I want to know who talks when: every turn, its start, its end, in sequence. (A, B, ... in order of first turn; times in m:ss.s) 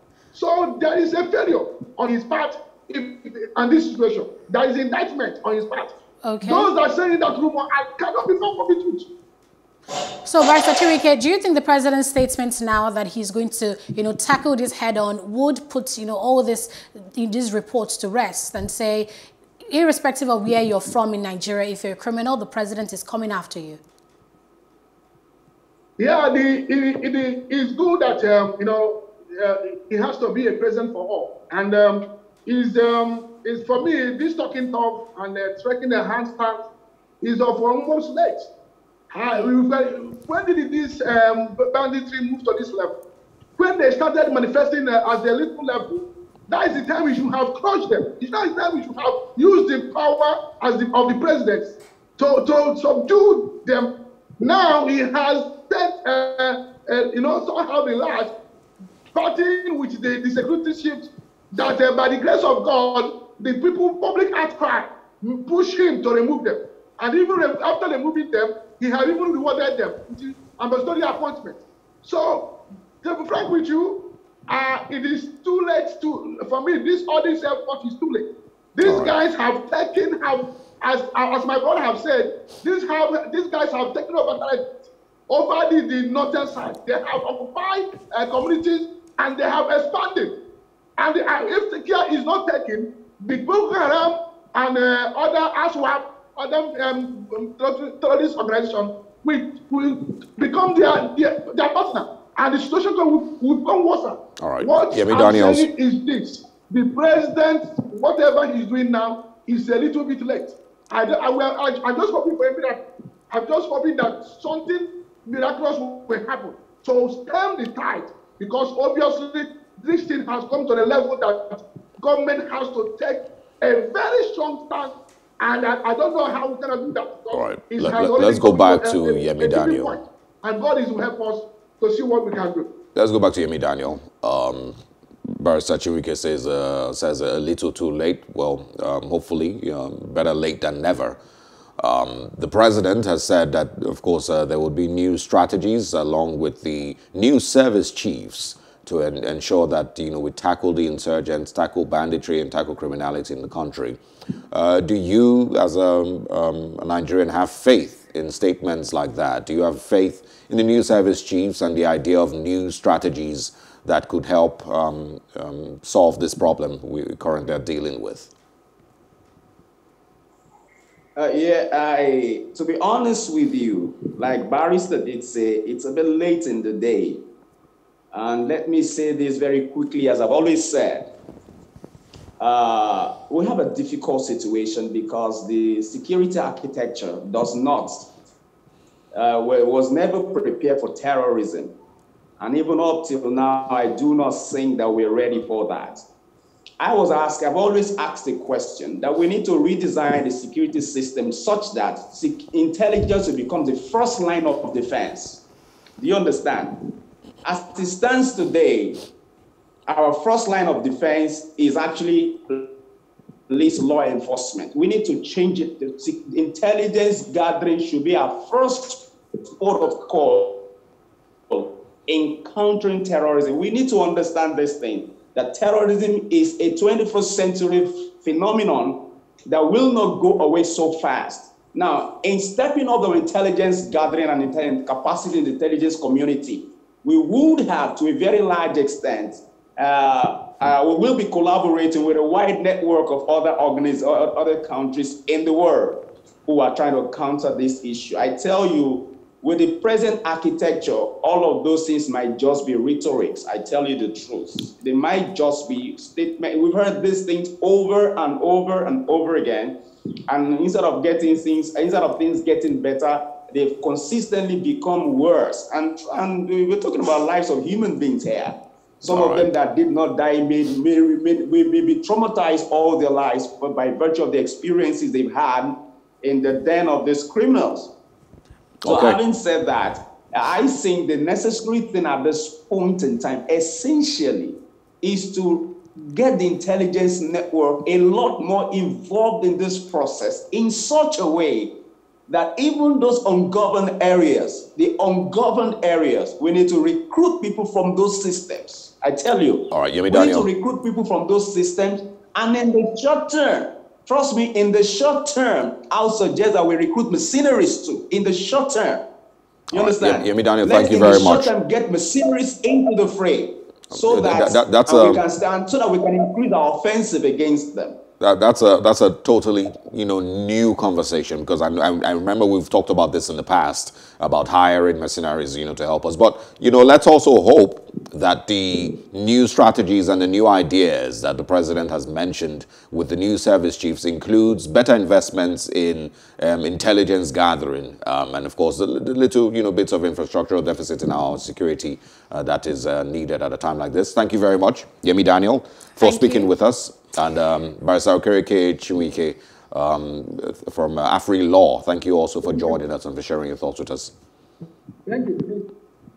0:00.3-0:09.1 A
0:06.2-0:06.7 B
0:10.2-0:19.1 B
0:19.7-0:23.8 B
0:26.0-0:36.6 A
0:37.2-0:38.5 A
0:39.1-0:42.9 A
0:43.6-0:58.3 A
0:59.1-1:12.5 A
1:13.0-1:24.8 A
1:18.8-1:19.1 C
1:25.3-1:30.3 A
1:31.0-2:12.7 A
1:44.4-1:45.6 C
2:07.3-2:10.0 C
2:12.9-2:14.8 C
2:15.3-2:21.2 C
2:21.8-2:34.0 C
2:34.5-2:48.3 C
2:51.2-2:57.2 D
2:58.1-3:01.1 D
3:02.4-3:08.1 D
3:09.1-3:11.7 D
3:12.4-3:16.0 D
3:16.8-3:25.4 D
3:26.0-3:26.8 D
3:27.4-3:29.0 D
3:29.9-3:32.7 D
3:33.5-3:40.6 D
3:41.5-4:19.8 D
4:20.3-4:37.9 D
4:29.1-4:29.5 C
4:38.8-4:39.2 C
4:38.8-4:51.7 D
4:52.3-5:09.0 D
4:59.7-5:00.5 C
5:09.7-5:11.5 C
5:09.7-5:18.0 D
5:13.9-5:15.2 C
5:18.2-5:54.1 C
5:46.0-5:46.5 B
5:55.0-5:55.7 A